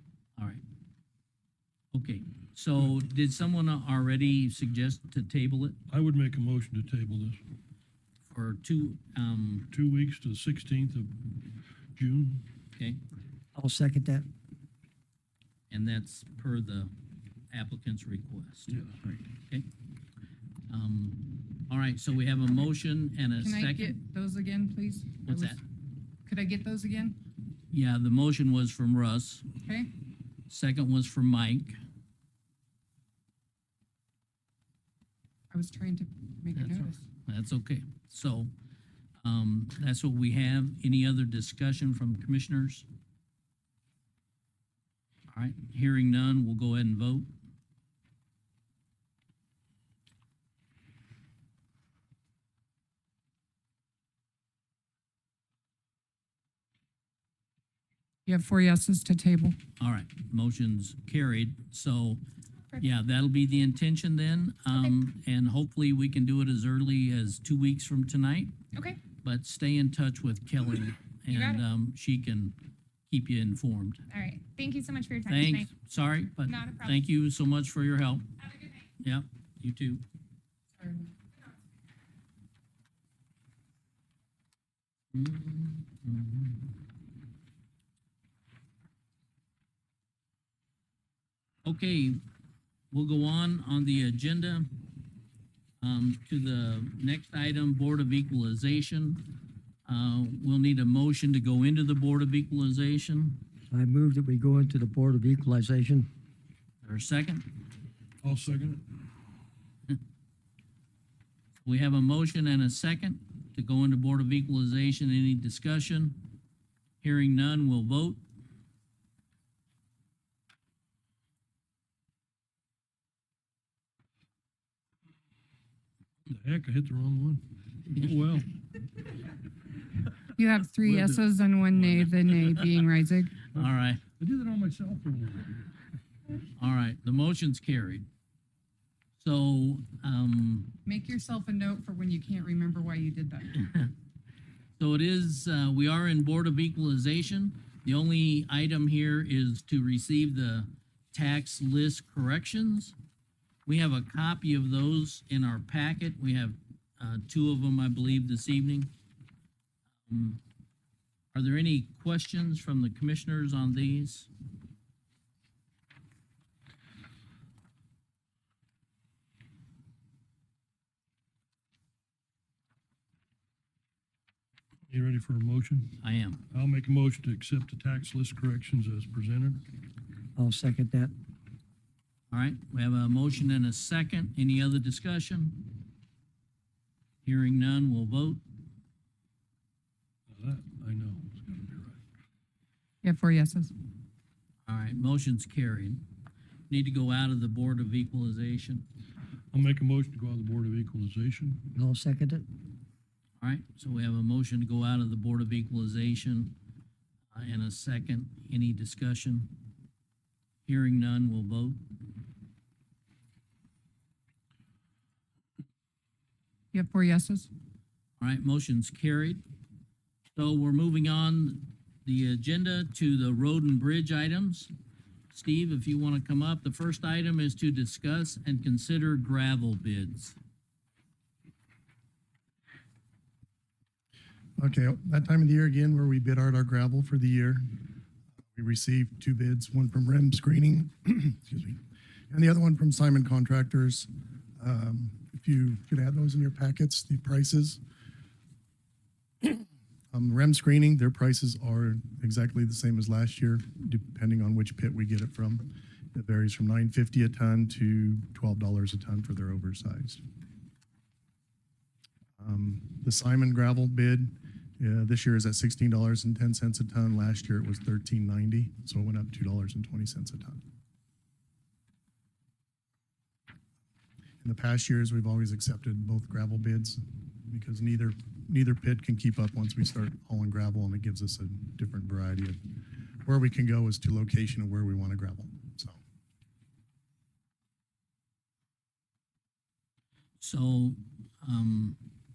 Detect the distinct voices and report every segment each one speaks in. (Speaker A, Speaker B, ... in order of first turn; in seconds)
Speaker A: 0.4-0.6, 1.9-5.8, 8.3-9.7, 15.7-16.9, 17.5-19.7, 20.7-23.9, 25.2-25.6, 27.7-29.4, 30.5-31.8, 36.5-38.5, 39.2-42.9, 45.3-47.3, 59.8-62.2, 62.8-68.5, 69.2-72.5, 73.1-74.0, 75.3-78.3, 79.0-80.0, 85.1-86.7, 91.6-92.2, 92.9-94.8, 95.8-99.3, 99.8-103.4, 106.8-107.5, 111.6-116.3, 117.0-118.2, 133.5-134.0, 136.6-138.1, 139.2-140.8, 143.5-143.9, 144.8-152.9, 153.7-158.9, 160.1-160.4, 161.3-164.3, 176.0-176.4, 182.3-185.8, 187.2-188.4, 194.7-196.0, 196.7-198.8, 203.4-206.5, 207.3-209.5, 210.6-211.8, 218.2-219.4, 220.3-224.7, 225.3-230.4, 290.4-292.0
Speaker B: 5.9-7.4, 9.7-12.5, 18.7-19.0, 108.2-109.0, 126.3-128.6, 130.8-132.5, 133.5-135.7, 174.9-176.0, 176.5-179.6, 190.3-192.0, 199.5-201.7
Speaker C: 13.5-14.3, 103.7-106.1, 180.3-181.1, 201.7-202.4
Speaker D: 23.4-25.6, 26.2-27.2, 29.6-29.9, 35.5-37.0, 58.3-59.6, 80.8-81.1, 130.3-133.4, 140.8-143.6, 193.0-193.7, 216.7-217.5
Speaker E: 68.7-69.0, 71.3-71.6, 74.1-75.7, 76.4-77.0
Speaker F: 234.6-237.8, 238.5-247.8, 249.4-260.2, 262.4-270.6, 274.4-286.0